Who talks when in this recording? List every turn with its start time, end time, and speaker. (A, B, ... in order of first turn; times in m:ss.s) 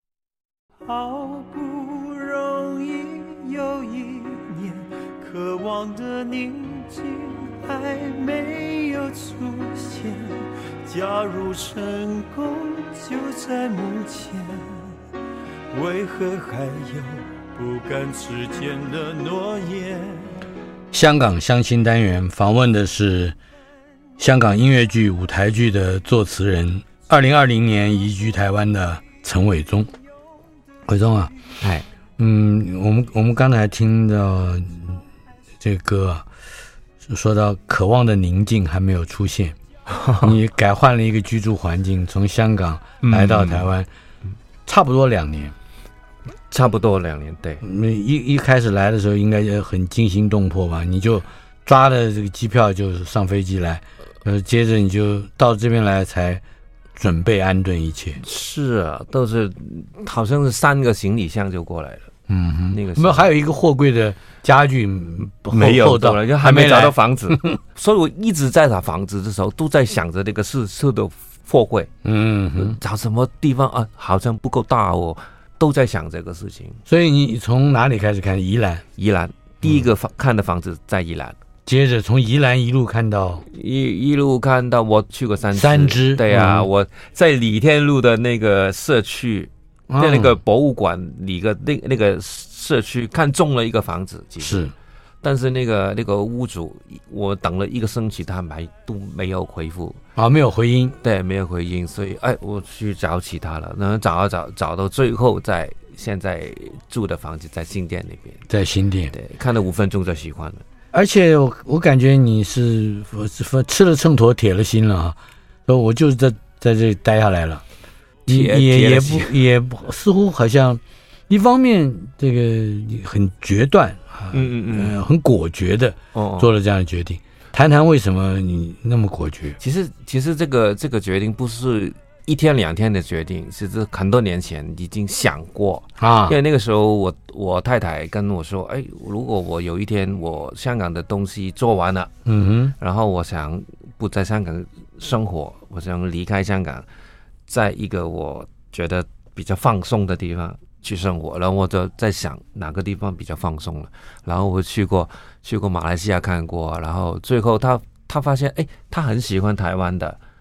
0:00.8-0:14.8 A
0:15.7-0:20.4 A
0:20.9-0:23.4 B
0:24.2-0:29.9 B
0:30.9-0:31.3 B
0:31.6-0:31.8 C
0:32.2-0:35.0 B
0:35.6-0:36.2 B
0:37.0-0:39.6 B
0:39.9-0:40.3 C
0:40.2-0:43.9 B
0:43.0-0:43.7 C
0:44.6-0:45.5 B
0:46.5-0:47.6 C
0:47.6-0:56.4 B
0:57.0-0:58.2 B
0:58.2-1:02.1 C
1:02.3-1:07.6 B
1:02.7-1:03.3 C
1:05.5-1:11.9 C
1:12.0-1:12.8 B
1:12.6-1:16.8 C
1:16.9-1:18.8 B
1:19.0-1:21.4 C
1:21.6-1:23.4 B
1:23.5-1:34.6 C
1:25.5-1:26.7 B
1:29.9-1:30.4 B
1:34.4-1:34.7 B
1:35.2-1:40.0 C
1:40.2-1:41.0 B
1:41.0-1:48.4 C
1:48.5-1:49.1 B
1:49.1-1:50.6 C
1:50.9-1:57.6 B
1:58.3-2:09.6 B
1:58.3-1:59.4 C
2:04.3-2:05.0 C
2:06.1-2:06.5 C
2:09.6-2:22.1 C
2:16.0-2:16.4 B
2:22.2-2:22.7 B
2:22.8-2:26.8 C
2:27.5-2:40.2 C